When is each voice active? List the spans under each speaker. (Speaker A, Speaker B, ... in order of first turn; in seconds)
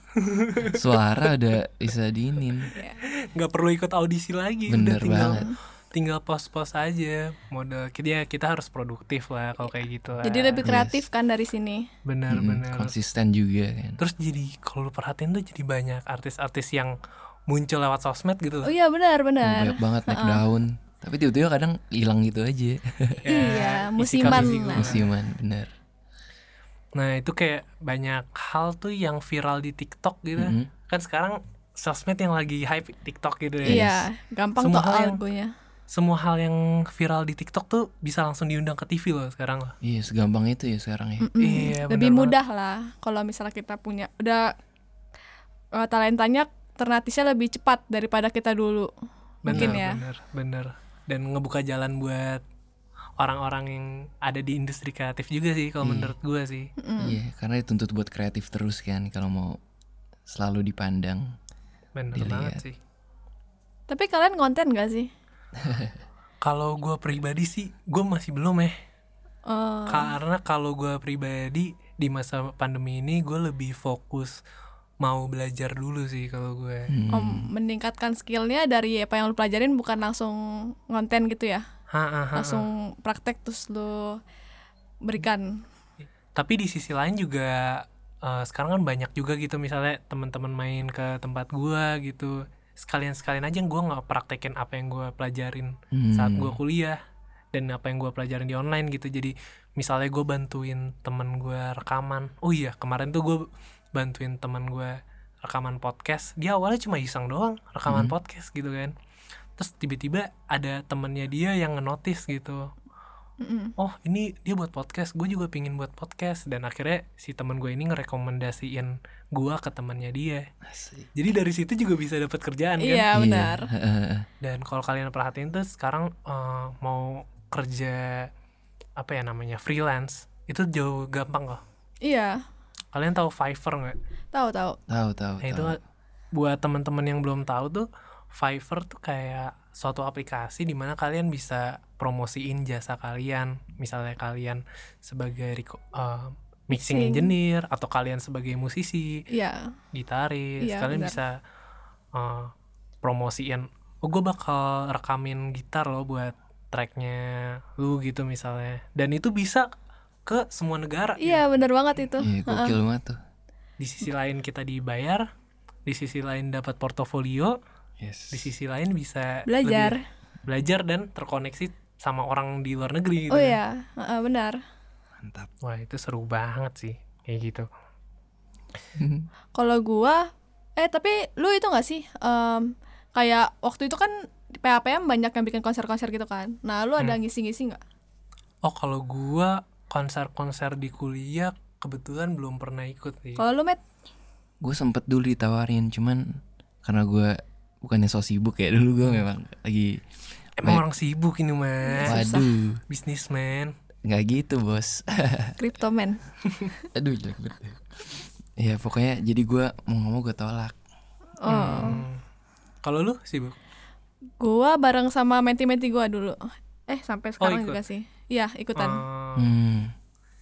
Speaker A: 0.2-0.8, 3.0-10.7, 12.0-13.0, 14.0-16.9, 17.5-18.7, 23.2-25.0, 26.9-34.0, 34.6-35.2, 35.9-39.8, 41.4-42.3, 49.5-52.4, 53.2-56.7, 62.0-62.8, 66.4-68.7, 69.9-74.4, 75.0-76.9, 81.9-82.7, 86.3-97.0, 97.5-108.9, 109.6-112.7, 113.8-120.5, 121.1-123.1, 124.4-128.3, 129.0-131.6, 132.9-134.0, 135.4-135.8, 136.3-149.2, 149.9-151.4, 152.1-159.7, 160.2-161.4, 163.8-165.3, 165.8-167.6, 168.3-173.6, 175.6-177.7, 188.6-193.4, 200.6-202.2, 202.9-203.7, 211.4-212.2, 212.8-213.6, 217.4-217.8, 218.8-219.5
Speaker B: 0.6-2.7, 4.7-5.4, 10.6-11.1, 12.3-14.0, 19.4-23.2, 24.2-25.7, 30.4-30.7, 33.6-34.0, 39.8-41.4, 49.5-49.8, 55.8-56.1, 57.0-59.6, 60.2-61.3, 62.1-62.6, 65.6-66.0, 76.9-77.5, 95.9-96.6, 107.9-108.1, 120.6-121.1, 123.1-124.3, 134.9-135.8, 162.2-163.2, 168.0-168.5, 175.2-175.5, 178.9-179.3, 194.6-200.0, 202.0-202.8, 204.0-205.6, 206.9-210.8, 219.3-219.9
Speaker C: 2.7-3.0, 5.3-5.5, 10.2-11.9, 18.6-20.4, 23.3-24.9, 33.7-35.5, 41.2-44.5, 45.7-48.9, 49.5-50.0, 56.8-57.2, 63.9-65.1, 69.5-70.1, 77.1-81.6, 82.3-84.2, 85.0-85.6, 113.4-113.7, 122.8-123.7, 132.0-132.4, 134.3-134.8, 146.7-147.3, 149.3-149.7, 150.6-151.2, 161.2-162.8, 169.5-170.0, 173.3-174.6, 179.5-187.8, 193.4-193.8, 201.8-202.5, 205.6-206.2, 211.4-212.0, 214.4-219.0